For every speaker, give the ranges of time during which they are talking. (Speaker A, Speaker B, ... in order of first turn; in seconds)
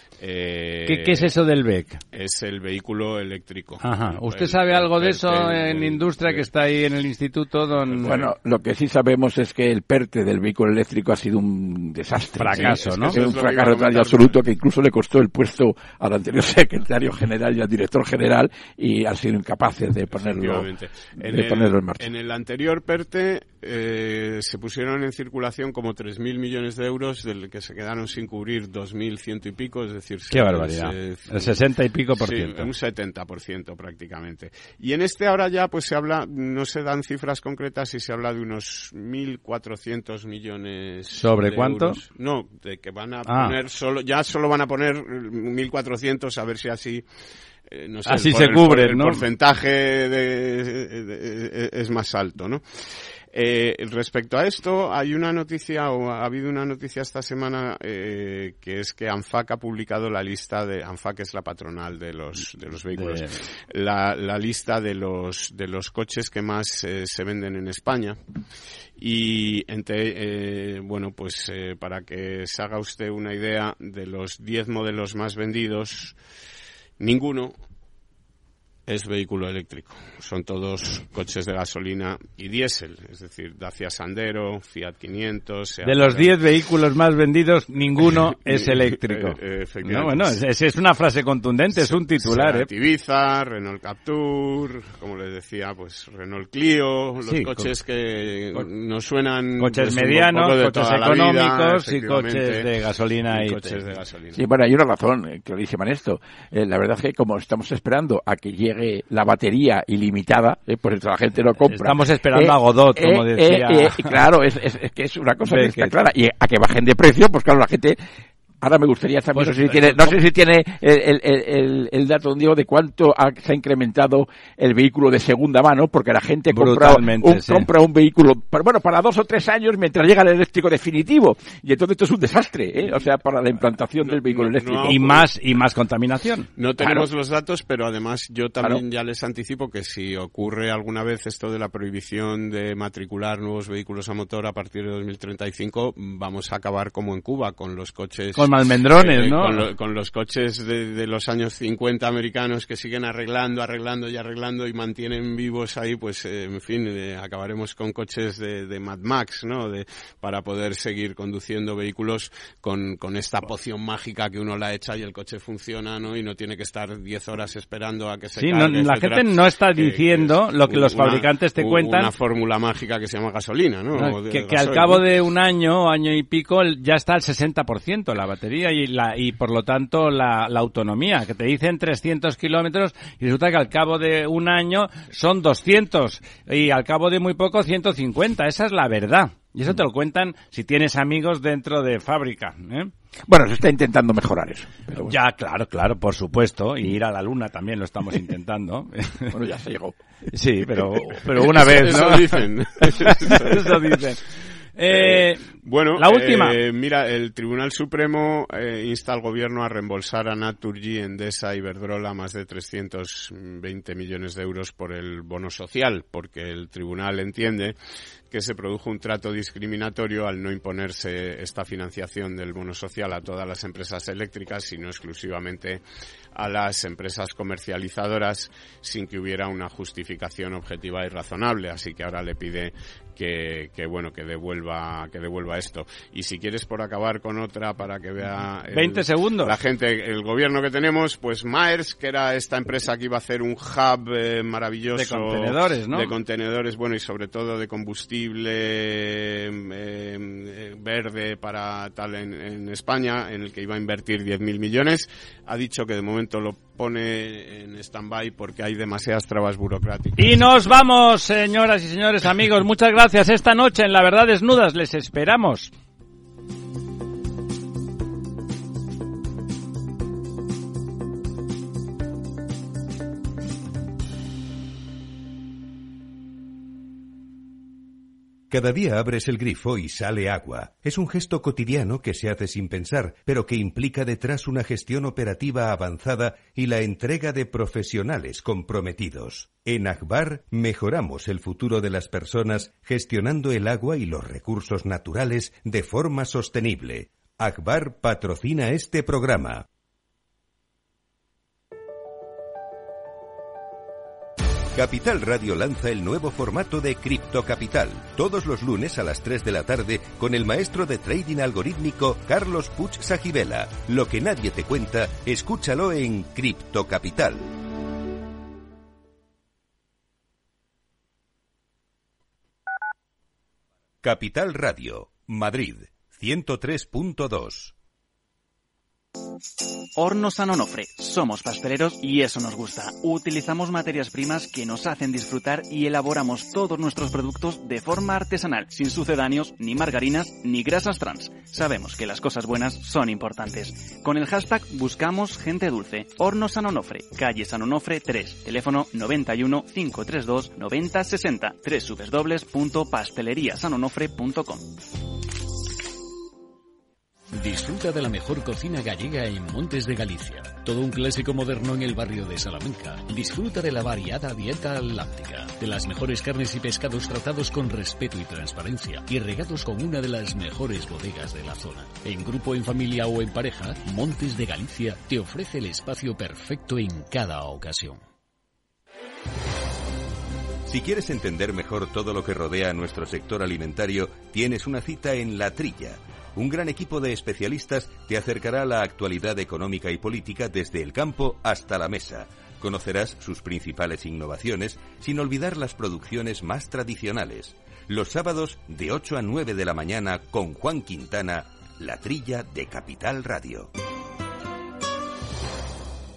Speaker A: 0.2-1.3, 2.1-6.5, 12.5-14.3, 20.1-31.6, 32.2-47.0, 47.7-68.2, 69.0-76.2, 77.0-77.5, 78.9-86.4, 88.0-90.4, 91.8-102.7, 103.3-104.4, 134.0-135.3, 136.6-175.0, 201.4-204.0, 204.9-217.8, 218.3-225.8, 226.3-260.4
Speaker B: 0.8-2.0, 3.8-8.3, 12.4-13.2, 30.3-32.7, 41.1-42.0, 43.3-43.5, 48.0-49.2, 62.9-63.4, 85.8-92.7, 97.2-97.7, 99.6-103.8, 111.6-114.2, 115.5-115.9, 119.3-120.2, 126.5-127.7, 134.8-136.5, 148.3-149.7, 168.4-172.1, 173.9-192.9, 194.9-199.3, 200.3-206.6, 238.7-239.5, 244.9-246.1, 260.2-265.7
Speaker C: 8.0-20.7, 21.2-22.1, 104.3-118.0, 118.6-135.2, 136.8-137.1, 193.3-195.2, 199.3-199.9, 200.6-201.4
Speaker D: 278.5-299.6, 304.7-317.5, 324.0-327.7, 380.6-403.7
Speaker E: 329.9-354.7
Speaker F: 357.3-378.0